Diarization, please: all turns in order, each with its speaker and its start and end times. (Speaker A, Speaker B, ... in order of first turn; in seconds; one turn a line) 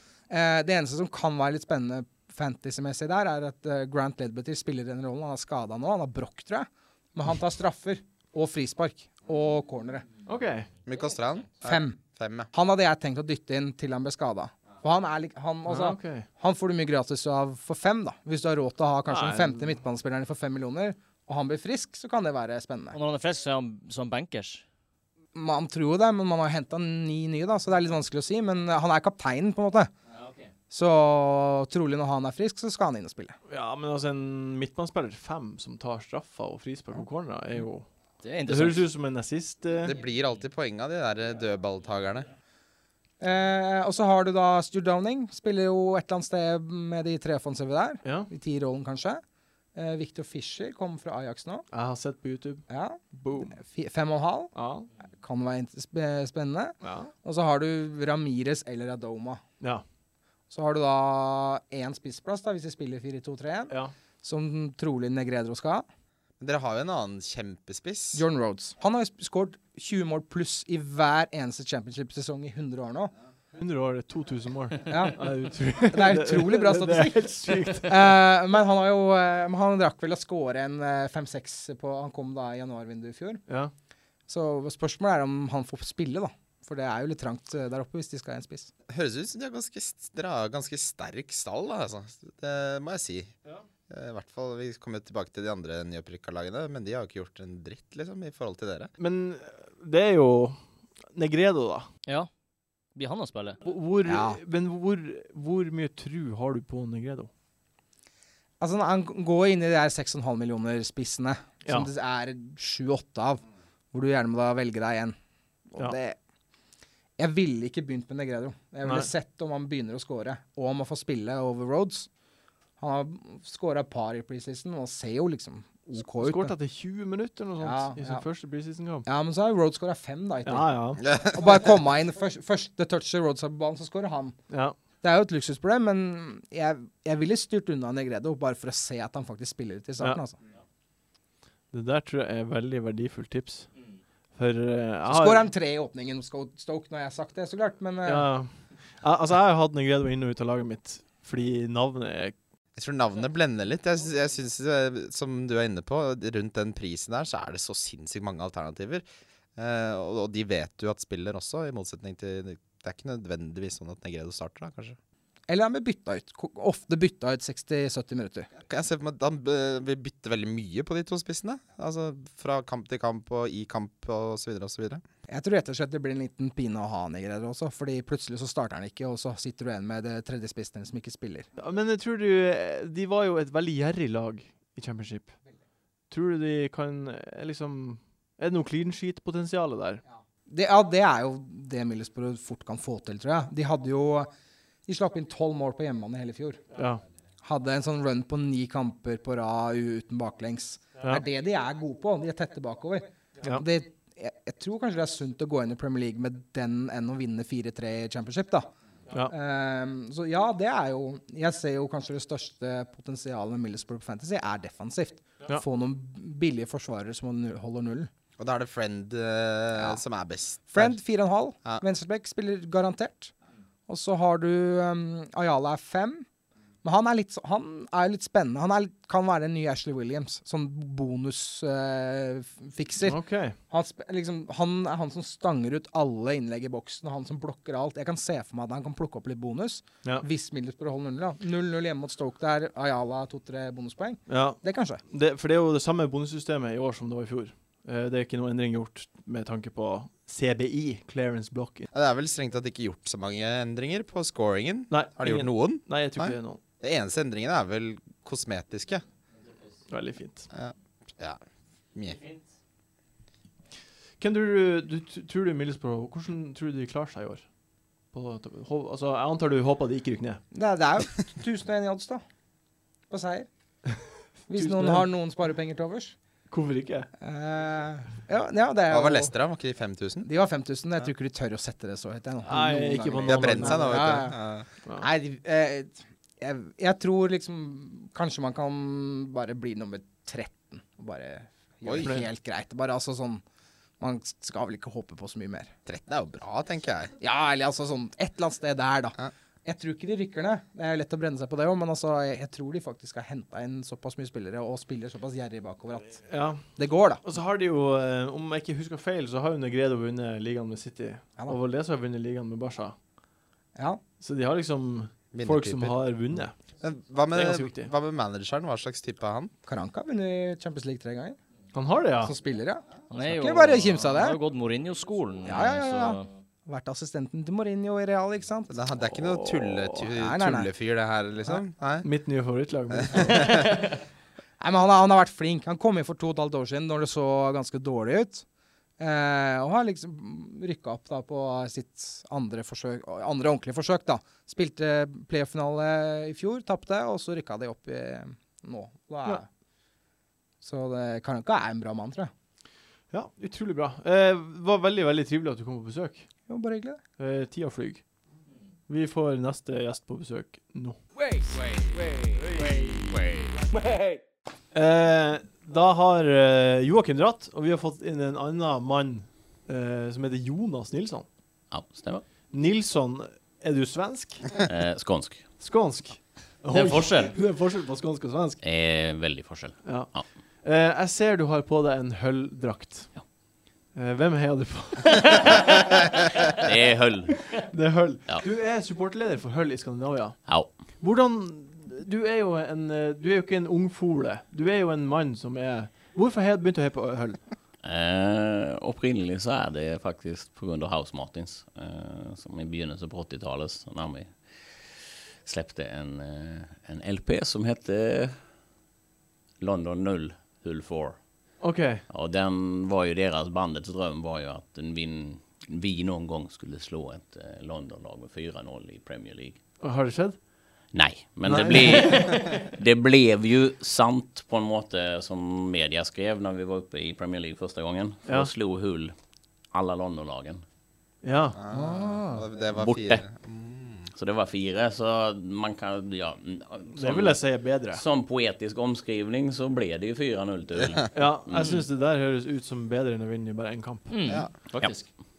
Speaker A: 0.3-10.1
Speaker B: 10.2-10.7
Speaker C: 10.9-12.5
Speaker A: 11.6-12.0
Speaker A: 12.5-23.0
Speaker B: 15.7-16.3
Speaker B: 19.1-19.7
Speaker D: 22.9-24.6
Speaker A: 25.4-29.9
Speaker A: 30.7-33.4
Speaker B: 33.5-37.9
Speaker D: 38.2-38.9
Speaker B: 38.5-39.9
Speaker C: 39.8-42.3
Speaker A: 43.2-49.2
Speaker B: 48.0-48.3
Speaker A: 49.8-51.7
Speaker B: 51.7-53.6
Speaker A: 52.7-54.5
Speaker B: 54.5-54.9
Speaker A: 55.2-59.4
Speaker B: 56.8-57.1
Speaker A: 60.5-65.8
Speaker C: 66.4-68.2
Speaker A: 68.1-73.1
Speaker B: 73.5-78.2
Speaker A: 74.9-75.2
Speaker A: 75.9-83.4
Speaker A: 84.3-88.7
Speaker C: 88.9-93.3
Speaker C: 93.9-98.9
Speaker B: 99.0-101.9
Speaker D: 103.0-103.6
Speaker B: 103.6-107.3
Speaker A: 104.0-104.4
Speaker A: 108.6-115.2
Speaker A: 115.7-116.2
Speaker A: 117.2-122.1
Speaker B: 118.8-119.1
Speaker A: 122.8-126.5
Speaker B: 126.1-129.1
Speaker A: 127.6-128.2
Speaker A: 129.1-134.4
Speaker B: 130.5-131.0
Speaker C: 131.0-131.4
Speaker B: 134.5-134.8
Speaker A: 135.0-140.4
Speaker B: 141.7-143.7
Speaker B: 144.3-145.5
Speaker A: 145.1-148.3
Speaker B: 148.1-152.3
Speaker C: 152.8-159.1
Speaker C: 159.6-165.0
Speaker A: 165.5-168.5
Speaker C: 168.7-175.0
Speaker A: 175.3-181.5
Speaker B: 181.6-185.4
Speaker B: 186.1-190.0
Speaker A: 190.5-194.3
Speaker A: 194.9-196.7
Speaker B: 196.7-197.0
Speaker A: 197.4-208.7
Speaker A: 209.3-218.1
Speaker C: 218.4-220.9
Speaker A: 220.7-223.3
Speaker A: 223.9-226.2
Speaker A: 226.8-245.0
Speaker B: 233.0-233.6
Speaker B: 244.3-251.9
Speaker C: 251.9-259.1
Speaker B: 254.9-256.6
Speaker B: 259.9-260.5
Speaker C: 260.5-261.4
Speaker C: 261.9-262.2
Speaker B: 264.2-267.5
Speaker B: 268.1-270.4
Speaker A: 270.5-272.2
Speaker A: 273.1-273.5
Speaker A: 274.5-276.2
Speaker B: 274.5-275.1
Speaker B: 276.5-277.1
Speaker A: 277.2-279.3
Speaker C: 278.9-280.3
Speaker A: 280.2-284.4
Speaker B: 282.5-284.2
Speaker C: 283.3-284.7
Speaker A: 285.0-293.4
Speaker C: 291.8-292.1
Speaker B: 292.0-292.3
Speaker A: 294.0-295.7
Speaker C: 295.9-297.1
Speaker A: 297.2-307.2
Speaker B: 306.3-313.0
Speaker A: 313.8-314.0
Speaker B: 314.2-316.6
Speaker C: 315.3-316.0
Speaker C: 316.8-319.5
Speaker B: 317.3-317.9
Speaker A: 319.7-321.4
Speaker B: 321.7-322.3
Speaker A: 322.2-324.4
Speaker D: 323.1-326.3
Speaker A: 325.4-328.8
Speaker C: 328.7-332.1
Speaker A: 330.0-330.7
Speaker B: 332.0-333.8
Speaker C: 332.9-333.6
Speaker A: 334.6-338.4
Speaker A: 339.0-349.5
Speaker A: 350.6-352.3
Speaker B: 353.1-356.3
Speaker A: 356.5-357.0
Speaker B: 357.2-358.0
Speaker B: 358.9-361.0
Speaker E: 362.6-363.6
Speaker B: 364.7-371.3
Speaker E: 371.7-372.3
Speaker B: 372.5-374.6
Speaker E: 374.6-375.6
Speaker B: 375.6-378.6
Speaker D: 376.7-377.4
Speaker E: 378.6-380.3
Speaker B: 379.8-383.3
Speaker B: 383.9-385.8
Speaker E: 386.6-387.6
Speaker B: 387.6-397.4
Speaker E: 390.5-390.8
Speaker E: 397.8-408.4
Speaker E: 409.6-411.2
Speaker B: 411.6-412.0
Speaker E: 412.1-419.6
Speaker B: 419.8-420.4
Speaker E: 420.9-429.1
Speaker B: 421.4-422.4
Speaker D: 422.0-422.6
Speaker E: 429.7-430.6
Speaker B: 431.2-431.6
Speaker C: 431.6-434.1
Speaker D: 431.7-432.4
Speaker E: 432.7-433.2
Speaker E: 434.1-441.8
Speaker B: 437.0-438.0
Speaker B: 441.1-444.1
Speaker D: 444.1-445.1
Speaker C: 444.2-444.5